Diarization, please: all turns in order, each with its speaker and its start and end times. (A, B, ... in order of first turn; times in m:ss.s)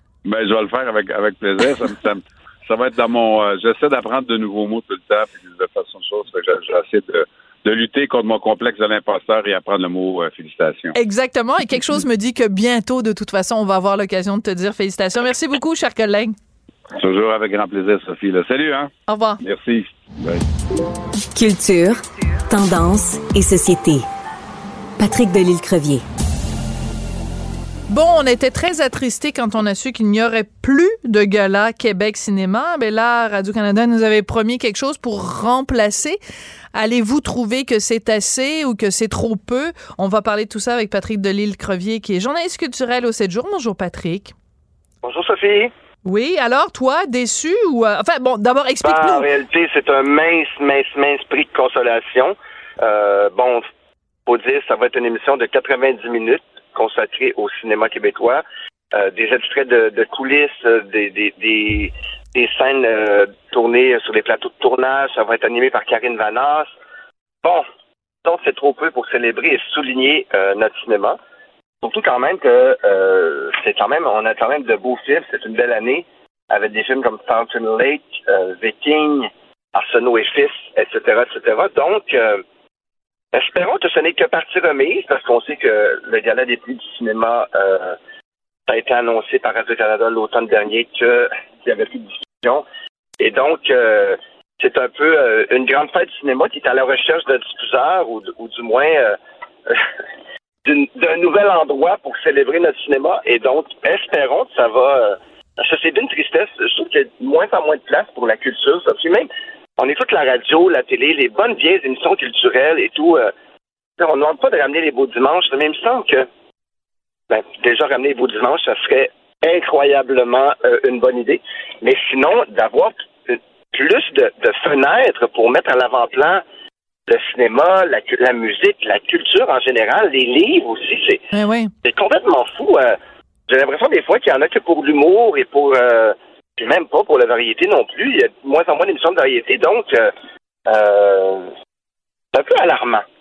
0:00.2-0:11.0 A
0:11.0-0:16.4 B
0:16.9-0:20.4 A
0:19.1-0:19.4 B
0:21.3-0:24.1 C
0:25.0-0:26.0 C
0:27.9-0:36.2 B
0:36.7-0:44.4 B
0:45.0-0:45.7 D
0:46.0-0:49.3 B
0:48.8-0:53.7 D
0:54.2-1:06.7 D
1:08.2-1:11.2 D
1:11.8-1:22.4 D
1:23.3-1:28.0 D
1:28.7-1:32.6 D
1:33.2-1:39.2 D
1:40.7-1:53.3 D
1:54.0-1:56.2 D
1:57.3-2:06.4 D
2:07.1-2:11.2 D
2:11.3-2:11.7 B
2:11.8-2:13.0 D
2:13.5-2:20.1 D
2:20.7-2:21.5 D
2:22.3-2:23.0 D